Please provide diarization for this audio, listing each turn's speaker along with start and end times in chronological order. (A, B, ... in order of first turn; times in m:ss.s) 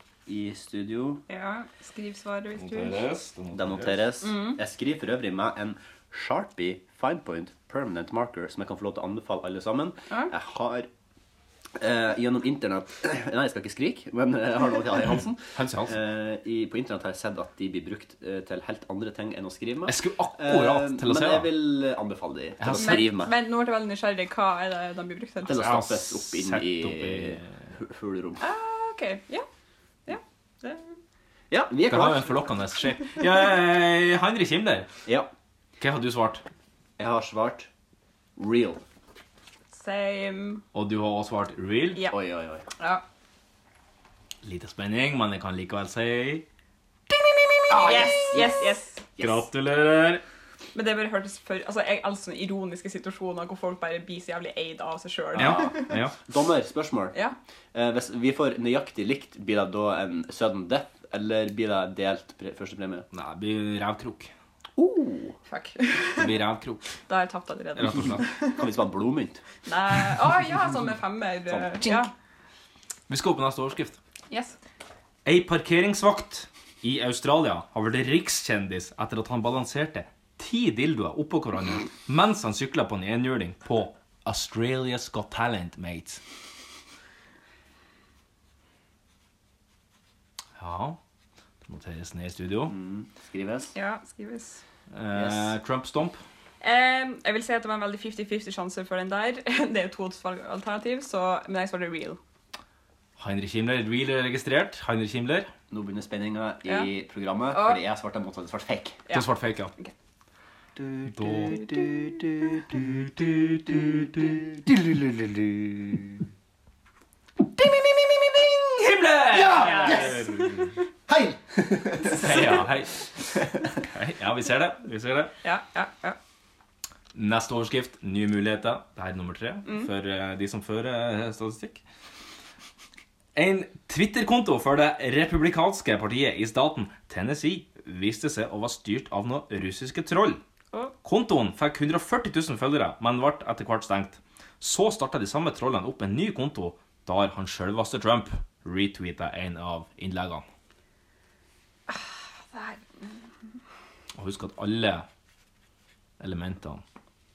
0:00.3-0:01.2 A
0:01.3-0:03.0 B
0:02.6-0:04.0 C
0:03.5-0:10.9 A
0:04.2-0:04.6 B
0:11.7-0:23.3 A
0:15.6-0:16.0 C
0:19.9-0:21.5 C
0:22.6-0:23.1 C
0:22.7-0:25.6 B
0:25.4-0:27.5 C
0:25.4-0:28.4 A
0:28.4-0:29.4 B
0:30.1-0:31.0 B
0:31.5-0:32.4 A
0:31.9-0:34.9 C
0:35.8-0:36.4 C
0:37.0-0:37.7 A
0:38.4-0:38.8 A
0:39.7-0:40.6 B
0:40.7-0:42.0 C
0:42.1-0:42.7 A
0:44.4-0:46.4 C
0:47.7-0:49.4 A
0:47.7-0:49.0 B
0:49.2-0:50.2 C
0:50.7-0:55.9 B
0:55.3-0:57.1 A
0:55.4-0:56.1 C
0:57.7-1:03.0 A
1:03.1-1:04.3 C
1:04.8-1:05.4 A
1:05.5-1:06.3 B
1:06.2-1:06.9 C
1:07.1-1:08.6 B
1:07.8-1:08.2 C
1:08.6-1:09.4 A
1:09.6-1:12.1 B
1:11.5-1:11.9 A
1:13.1-1:14.0 C
1:14.3-1:14.6 B
1:15.2-1:26.2 C
1:30.6-1:31.0 C
1:31.6-1:32.7 C
1:32.7-1:33.7 A
1:33.7-1:34.6 B
1:34.9-1:36.2 C
1:35.1-1:35.5 A
1:36.6-1:42.2 B
1:43.2-1:45.5 C
1:45.7-1:49.0 A
1:47.5-1:47.8 B
1:49.1-1:49.9 B
1:49.1-1:49.7 C
1:50.8-1:56.2 A
1:51.1-1:51.9 C
1:52.7-1:54.0 C
1:57.8-1:58.3 A
1:58.7-2:00.7 C
1:59.3-2:00.4 A
1:59.5-2:00.6 B
2:01.1-2:02.6 A
2:02.1-2:05.3 C
2:05.4-2:06.2 B
2:07.1-2:11.8 C
2:13.3-2:20.4 C
2:21.0-2:30.4 C
2:31.9-2:33.2 B
2:34.2-2:35.0 C
2:36.2-2:36.8 C